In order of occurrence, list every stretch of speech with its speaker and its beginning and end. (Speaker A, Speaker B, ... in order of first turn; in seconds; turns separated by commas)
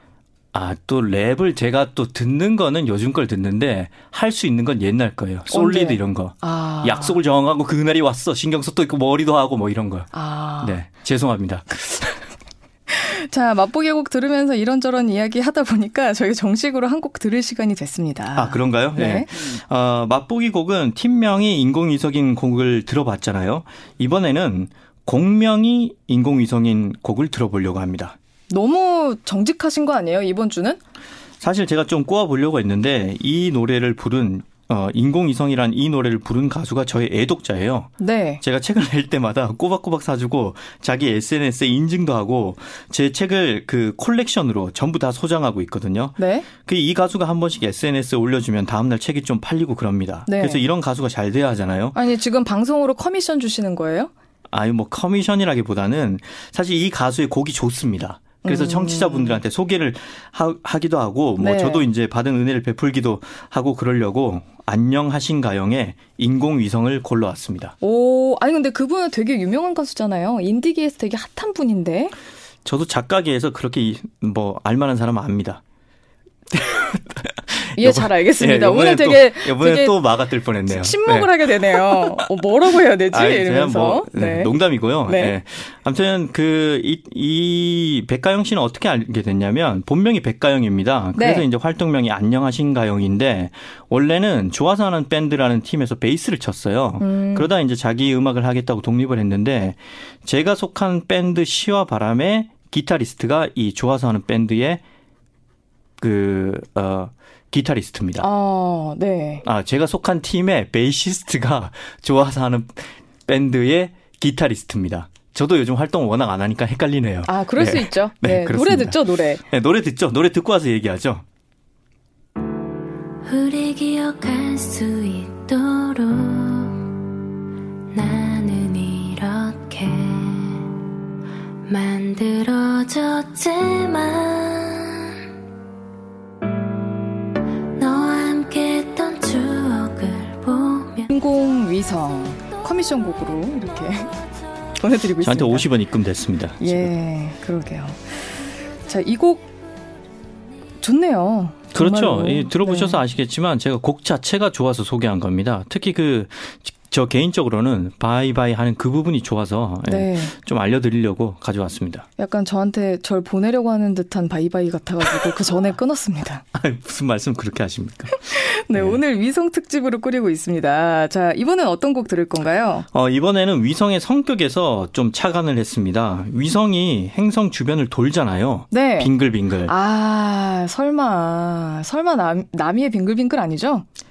Speaker A: 0.5-12.2, Speaker B: 5.5-7.2, Speaker B: 10.1-10.8, Speaker B: 12.9-19.3, Speaker A: 18.3-28.1, Speaker B: 28.5-30.8, Speaker A: 31.4-52.0, Speaker B: 38.0-38.4, Speaker B: 46.2-46.5, Speaker B: 50.3-50.6, Speaker B: 51.9-54.1, Speaker A: 54.5-67.8, Speaker B: 58.4-59.4, Speaker B: 61.4-61.9, Speaker B: 67.8-72.1, Speaker A: 72.6-75.6, Speaker A: 76.5-82.2, Speaker B: 77.8-80.0, Speaker B: 80.7-84.5, Speaker A: 83.1-104.8, Speaker B: 85.0-85.3, Speaker B: 91.1-91.4, Speaker B: 97.0-97.5, Speaker A: 106.0-108.3, Speaker B: 108.2-109.4, Speaker A: 109.4-121.2, Speaker B: 117.3-119.4, Speaker C: 123.2-126.9, Speaker C: 127.9-130.7, Speaker C: 131.7-135.2, Speaker C: 137.8-141.1, Speaker B: 141.1-144.2, Speaker B: 144.8-145.7, Speaker A: 145.2-146.9, Speaker B: 146.6-149.5, Speaker B: 150.8-153.0, Speaker A: 151.7-162.1, Speaker B: 159.9-160.3, Speaker B: 162.2-166.4, Speaker A: 166.5-169.0, Speaker B: 168.2-172.8, Speaker A: 172.9-179.7, Speaker B: 178.7-179.1, Speaker B: 179.7-183.8